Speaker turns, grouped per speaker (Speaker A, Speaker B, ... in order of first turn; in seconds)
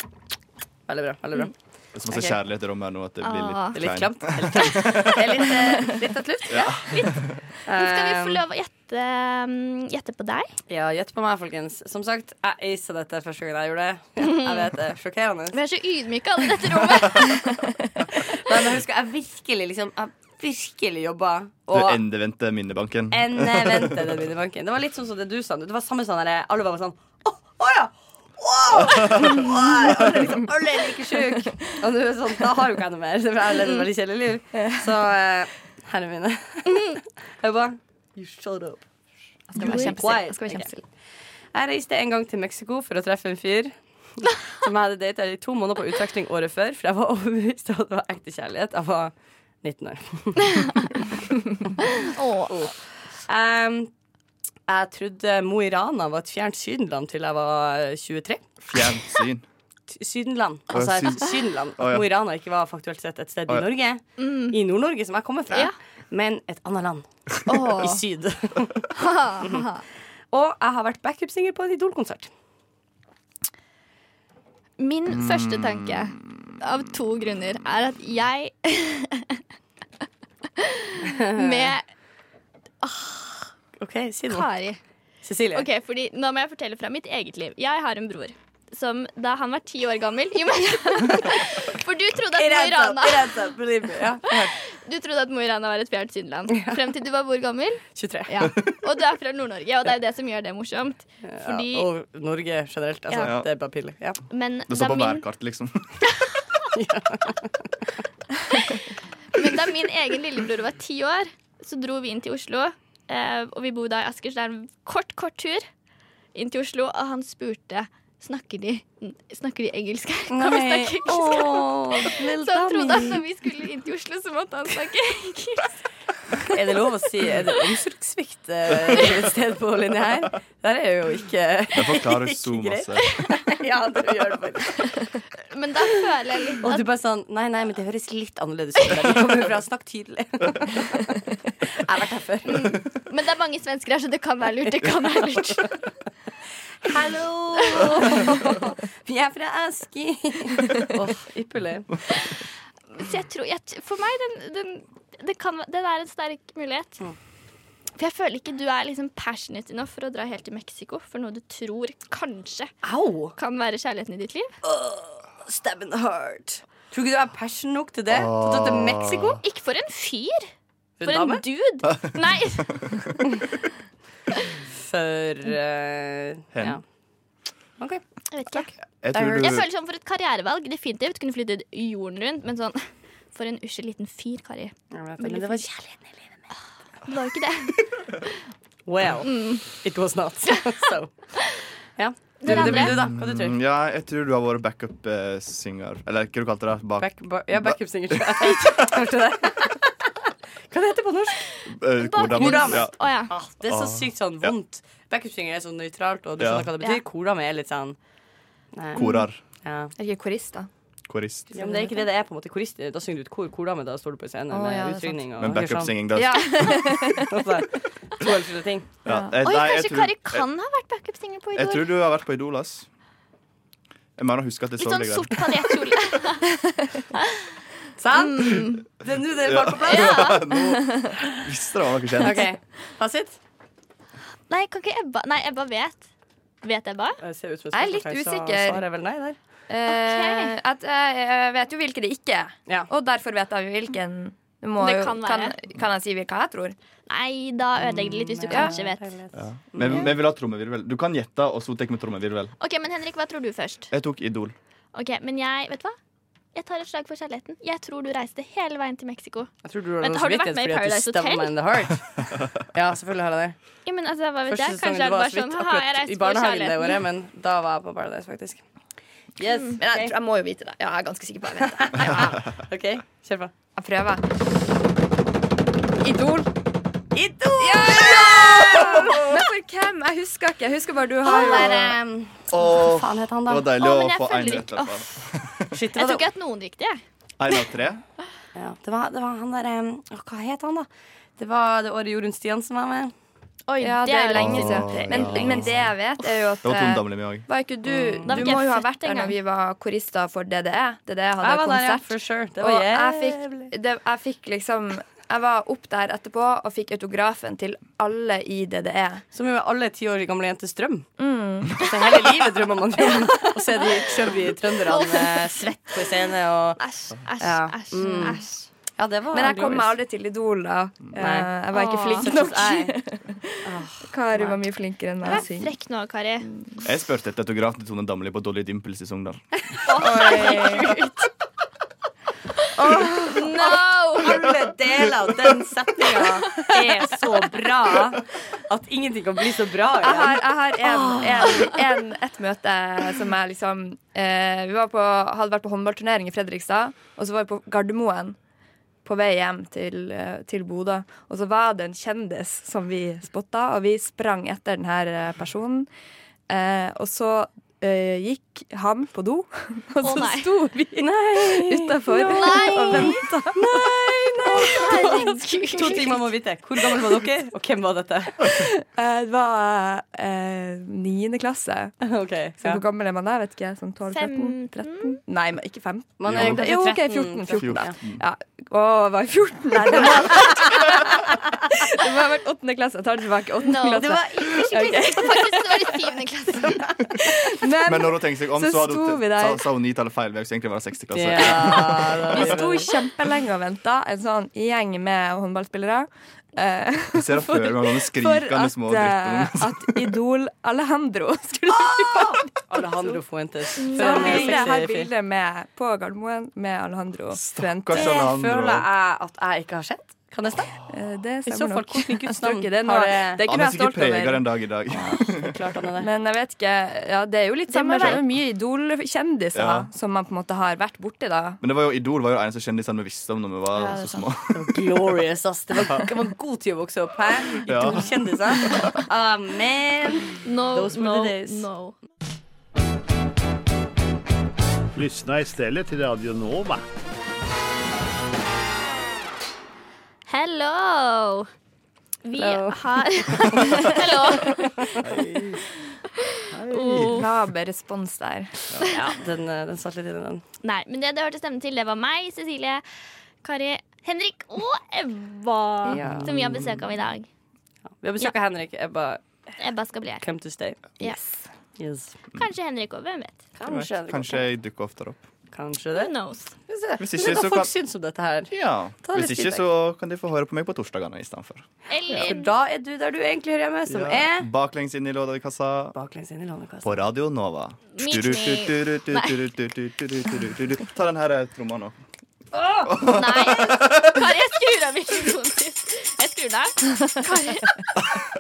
Speaker A: 0.9-1.5, 2.1-2.4, 3.7-6.9, 7.7-8.4, 10.7-15.6, 18.2-22.0, 23.1-38.8, 39.6-40.7, 41.5-49.1, 49.6-50.9, 52.5-52.8, 53.3-53.9, 54.7-58.4, 59.9-68.9, 70.3-72.3, 81.1-81.7, 83.8-84.5, 85.2-85.7, 92.3-94.5, 98.0-98.5, 101.2-104.2, 106.7-107.7, 120.3-123.2, 126.5-135.1, 136.6-141.1, 141.7-142.8, 146.8-152.0, 162.8-163.3, 164.6-169.4, 171.0-171.4, 174.7-176.8, 179.1-179.6, 184.9-186.4, 188.9-191.1, 192.0-193.6, 197.0-200.1, 200.7-201.4, 202.3-208.0, 208.7-209.0, 209.6-209.9, 211.5-215.9, 217.1-218.9, 228.0-230.3, 232.2-233.4, 237.2-239.4, 247.8-250.1, 259.6-263.6, 264.5-268.6, 269.4-270.1, 271.8-273.5, 277.1-279.1, 281.2-283.7, 285.7-286.3, 288.6-290.9, 291.4-293.1, 297.9-298.6, 301.4-303.7, 309.3-311.1, 311.8-316.8, 317.4-318.4, 319.0-320.0, 321.2-321.5, 322.1-323.0, 323.6-324.6, 330.1-331.0, 332.8-341.7, 361.0-368.6, 372.0-372.8, 376.2-378.0, 379.9-380.3, 391.1-392.9, 401.8-405.1, 407.9-410.8, 411.5-413.4, 415.1-416.1, 424.5-431.7, 442.4-445.3, 448.8-450.4, 456.0-456.3, 458.0-459.2, 460.2-461.0, 461.8-462.1, 463.6-464.4, 465.5-466.1, 466.7-469.7, 472.1-474.5, 475.9-477.1
Speaker B: 1.9-5.2, 6.5-7.4, 21.7-24.1, 58.6-59.5, 60.7-62.1, 75.1-76.0, 103.2-103.5, 104.7-106.0, 131.7-133.1, 168.1-169.4, 171.9-172.2, 172.7-173.1, 179.0-179.7, 192.5-198.7, 201.7-202.9, 203.7-204.5, 206.4-206.7, 208.9-209.4, 211.1-211.5, 215.4-216.8, 219.1-220.4, 221.6-222.9, 224.2-225.8, 229.4-232.5, 249.3-252.5, 253.9-254.6, 282.5-285.8, 287.4-288.0, 294.3-295.9, 296.6-297.5, 326.9-329.4, 376.3-376.7, 377.6-378.2, 387.9-392.6, 397.1-400.1, 407.3-408.9, 413.4-415.6, 419.5-419.9, 421.6-424.8, 427.7-428.9, 463.7-465.2, 467.0-467.7, 468.5-471.6, 473.9-475.9, 476.8-481.9, 482.9-484.3
Speaker C: 3.2-3.8, 6.8-7.2, 7.7-10.5, 14.2-14.6, 15.5-17.4, 39.6-40.0, 52.0-52.7, 64.2-64.6, 69.0-69.8, 74.8-79.4, 80.6-81.8, 82.8-83.5, 84.3-84.8, 85.5-93.5, 94.3-101.9, 104.3-105.2, 108.5-115.7, 116.3-125.7, 135.5-136.9, 142.5-145.7, 147.7-148.2, 152.1-157.0, 158.0-162.7, 163.3-164.5, 169.4-170.5, 171.0-173.2, 178.3-178.7, 179.4-185.7, 187.1-188.3, 189.2-189.6, 192.4-193.1, 202.0-203.3, 209.0-209.2, 219.4-221.9, 224.8-226.5, 227.2-227.5, 228.1-228.8, 229.8-230.5, 234.5-236.1, 236.6-237.2, 239.9-240.6, 244.8-245.6, 247.1-249.0, 252.6-253.9, 254.9-256.0, 256.6-261.5, 263.9-267.0, 283.8-285.0, 285.9-287.0, 293.7-295.4, 298.3-299.4, 314.9-315.6, 316.8-318.7, 321.7-322.3, 325.2-326.5, 329.9-331.2, 333.3-334.3, 360.0-360.5, 362.3-363.2, 364.6-366.2, 374.1-375.2, 383.6-386.9, 403.8-404.7, 417.7-418.2, 430.4-431.9, 440.3-441.5, 442.2-445.1, 446.7-447.3, 450.6-452.8, 453.4-457.3, 459.6-460.2, 462.4-463.4, 465.9-466.5, 471.9-472.5, 477.9-479.5, 482.8-487.9
Speaker D: 39.5-40.8, 67.5-67.9, 210.0-210.7, 211.6-211.9, 214.5-215.2, 216.1-217.3, 219.1-219.3, 237.7-238.8, 239.7-246.8, 269.8-272.4, 273.8-274.2, 276.0-276.5, 277.6-282.0, 293.8-309.2, 311.2-311.9, 318.0-318.3, 319.3-325.7, 330.0-331.0, 332.8-333.4, 340.0-348.4, 349.1-355.9, 356.5-366.2, 368.4-372.0, 372.6-386.1, 386.7-389.6, 392.3-403.2, 403.8-408.3, 410.9-414.4, 416.0-421.6, 447.0-448.7, 455.9-456.4, 461.0-461.4
Speaker E: 434.9-436.8, 445.1-445.6